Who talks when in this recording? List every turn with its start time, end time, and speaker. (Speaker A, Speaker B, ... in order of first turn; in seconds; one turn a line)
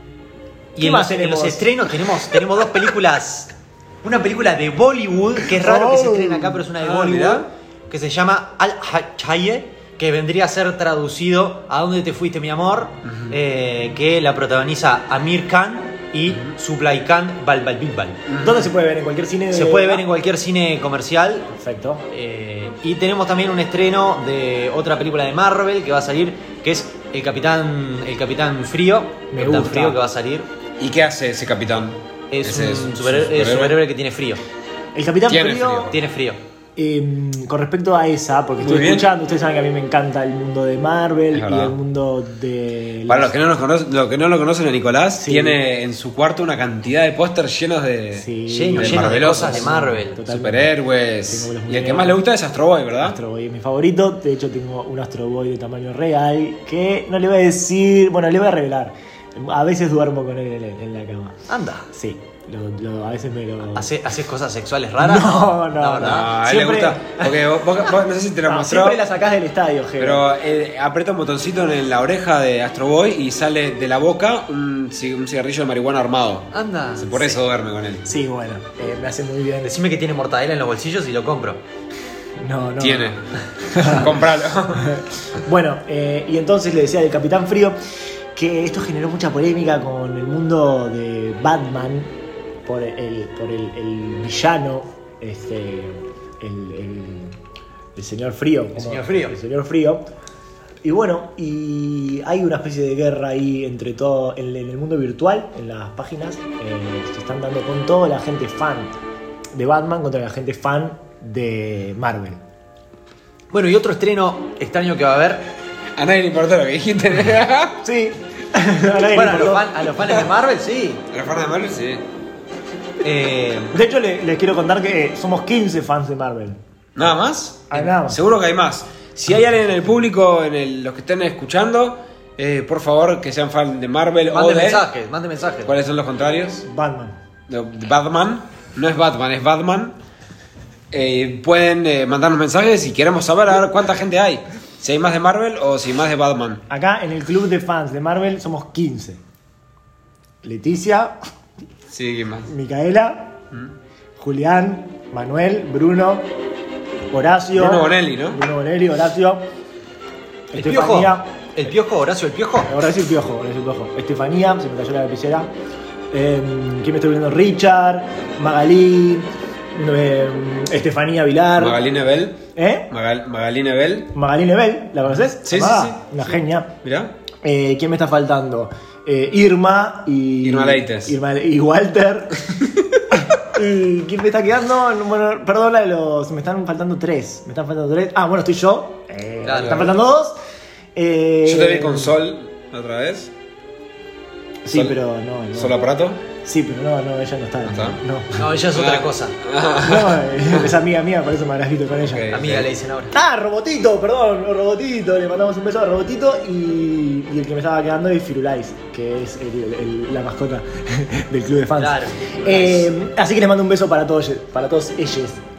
Speaker A: 0.8-18.2
Speaker B: 0.8-1.7
Speaker B: 5.5-6.6
Speaker C: 6.8-7.5
Speaker C: 18.3-18.7
Speaker B: 18.4-20.1
Speaker A: 19.5-21.5
Speaker B: 21.5-22.0
Speaker A: 22.1-30.5
Speaker B: 29.3-30.0
Speaker C: 30.8-33.8
Speaker A: 32.3-34.4
Speaker B: 34.9-36.0
Speaker C: 35.3-36.0
Speaker A: 35.9-36.4
Speaker B: 36.8-43.3
Speaker C: 38.6-39.1
Speaker C: 41.3-41.7
Speaker C: 43.1-53.2
Speaker B: 45.2-45.6
Speaker B: 48.1-50.7
Speaker A: 48.5-50.2
Speaker B: 51.3-52.2
Speaker B: 53.0-61.4
Speaker A: 61.5-61.9
Speaker B: 61.9-63.9
Speaker A: 63.7-66.3
Speaker B: 65.0-67.2
Speaker C: 66.0-69.0
Speaker B: 68.5-70.2
Speaker C: 70.0-78.1
Speaker A: 76.5-77.4
Speaker B: 78.0-79.7
Speaker A: 79.7-81.6
Speaker B: 82.4-83.1
Speaker C: 82.8-84.9
Speaker B: 83.7-84.1
Speaker B: 84.8-87.8
Speaker B: 88.3-97.3
Speaker B: 97.9-100.0
Speaker A: 98.8-99.4
Speaker B: 100.8-109.0
Speaker B: 109.5-112.4
Speaker A: 113.5-115.5
Speaker C: 116.0-117.8
Speaker B: 117.8-119.7
Speaker A: 119.1-121.0
Speaker C: 121.1-122.0
Speaker A: 123.0-123.8
Speaker B: 123.7-126.6
Speaker C: 126.9-134.8
Speaker B: 127.7-128.2
Speaker A: 134.3-135.7
Speaker C: 135.6-136.6
Speaker B: 136.6-137.2
Speaker C: 137.5-140.0
Speaker C: 140.9-146.6
Speaker B: 146.7-149.2
Speaker B: 150.4-151.2
Speaker C: 151.9-152.5
Speaker B: 152.4-153.4
Speaker B: 154.2-156.2
Speaker B: 157.1-159.4
Speaker C: 157.5-158.4
Speaker B: 160.5-161.2
Speaker A: 160.5-162.7
Speaker B: 162.7-165.5
Speaker B: 166.1-171.8
Speaker C: 171.6-174.1
Speaker B: 172.6-172.9
Speaker B: 174.1-176.7
Speaker C: 175.4-177.1
Speaker B: 177.4-190.4
Speaker C: 180.4-181.2
Speaker A: 189.4-189.9
Speaker C: 189.6-189.9
Speaker B: 190.9-192.1
Speaker C: 191.4-193.3
Speaker B: 194.6-195.7
Speaker C: 194.7-195.0
Speaker C: 195.5-196.2
Speaker B: 196.3-198.4
Speaker C: 197.6-198.0
Speaker A: 198.4-199.3
Speaker C: 198.7-200.7
Speaker B: 199.7-202.4
Speaker C: 202.1-202.7
Speaker A: 202.3-203.1
Speaker B: 203.1-215.4
Speaker A: 211.8-212.9